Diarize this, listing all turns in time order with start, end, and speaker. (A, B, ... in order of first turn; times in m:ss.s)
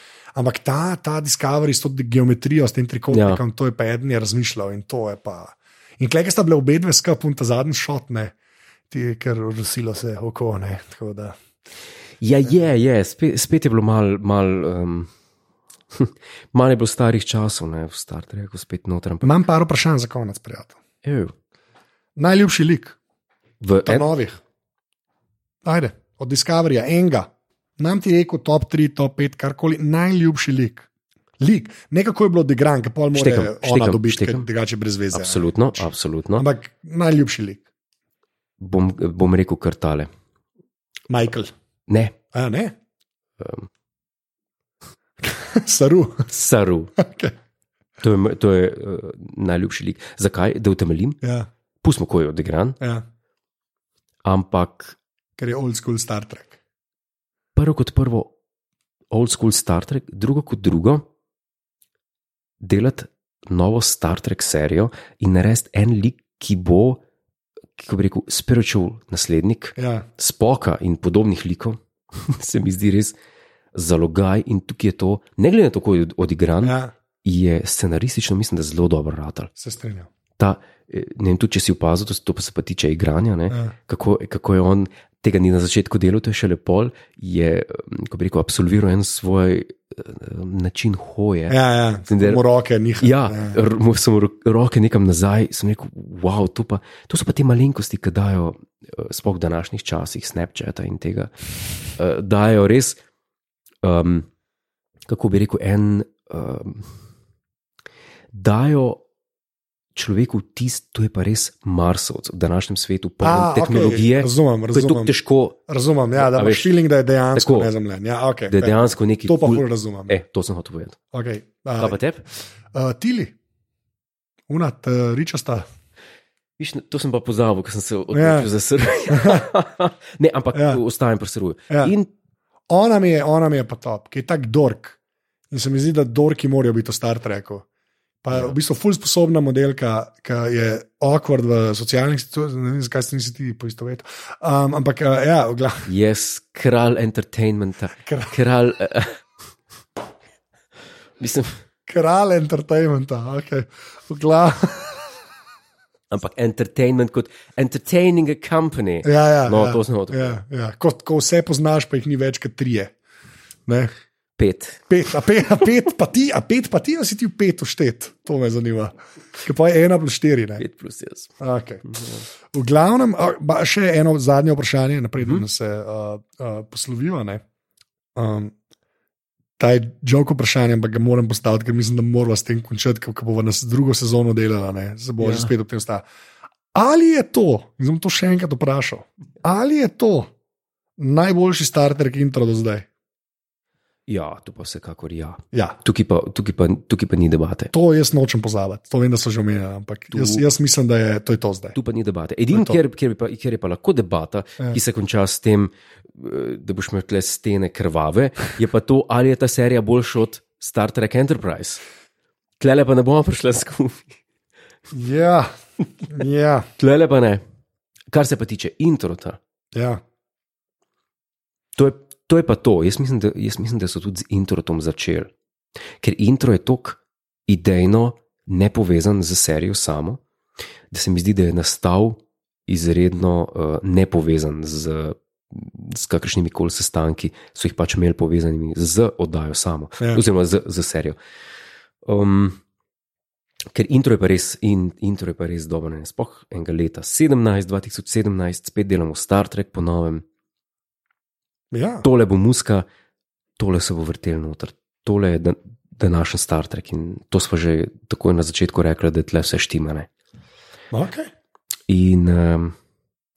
0:00.4-0:08.3 A
0:03.1-0:03.4 B
0:08.9-0:11.4 A
0:12.2-0:15.1 B
0:15.9-0:19.4 B
0:19.2-0:20.8 A
0:21.0-0:21.3 B
0:22.2-0:23.0 A
0:23.6-0:24.1 B
0:23.8-0:24.4 A
0:25.6-0:30.9 A
0:31.4-0:37.6 A
0:33.1-0:34.5 B
0:35.1-0:36.5 B
0:38.6-0:40.1 B
0:41.1-0:41.5 A
0:41.9-0:42.2 B
0:42.3-0:42.8 A
0:43.4-0:43.7 B
0:45.2-0:46.3 A
0:46.3-0:46.9 B
0:47.0-0:47.3 A
0:48.0-0:51.2 B
0:51.2-0:51.5 A
0:51.8-0:52.8 B
0:54.2-0:55.0 B
0:55.4-0:56.6 A
0:57.6-0:58.3 B
0:59.1-1:01.1 B
1:02.6-1:07.0 B
1:07.8-1:13.2 B
1:09.8-1:10.1 A
1:13.7-1:19.5 B
1:16.6-1:16.9 A
1:19.6-1:20.1 A
1:20.4-1:32.4 B
1:31.5-1:33.6 A
1:33.0-1:41.4 B
1:42.0-1:43.0 B
1:43.8-1:44.3 B
1:45.1-1:46.9 B
1:48.3-1:49.0 B
1:50.0-1:55.6 B
1:53.2-1:55.1 A
1:55.7-2:00.2 A
1:56.2-1:56.7 B
1:57.4-1:57.7 B
1:58.5-2:01.0 B
2:01.1-2:02.0 A
2:01.8-2:02.2 B
2:02.7-2:03.4 A
2:04.5-2:05.6 A
2:06.6-2:12.1 B
2:08.1-2:08.5 A
2:09.1-2:09.4 A
2:10.5-2:10.8 A
2:12.7-2:15.0 A
2:15.5-2:17.7 A
2:18.2-2:25.9 A
2:25.9-2:29.2 B
2:28.0-2:28.4 A
2:31.2-2:31.6 B
2:31.9-2:35.1 A
2:36.1-2:40.4 B
2:39.0-2:43.0 A
2:43.7-2:43.9 A
2:44.4-2:44.8 B
2:44.9-2:50.6 A
2:50.6-2:51.3 B
2:51.4-2:51.8 A
2:51.8-2:52.2 B
2:52.5-2:57.4 A
2:58.2-2:58.5 A
2:59.6-3:06.1 A
3:05.2-3:05.5 B
3:06.7-3:10.3 A
3:11.0-3:12.9 A
3:14.1-3:17.7 B
3:17.7-3:21.8 A
3:20.1-3:20.4 B
3:21.8-3:31.8 B
3:22.5-3:22.8 A
3:32.6-3:34.2 B
3:34.9-3:35.5 A
3:36.1-3:36.7 A
3:36.8-3:37.4 B
3:38.1-3:39.4 B
3:39.7-3:40.0 A
3:41.8-3:45.3 B
3:46.0-3:50.2 B
3:50.9-4:01.2 B
4:02.0-4:02.6 B
4:03.7-4:10.2 B
4:11.7-4:12.0 A
4:12.0-4:12.9 B
4:13.6-4:20.1 B
4:20.9-4:21.3 A
4:21.9-4:22.8 B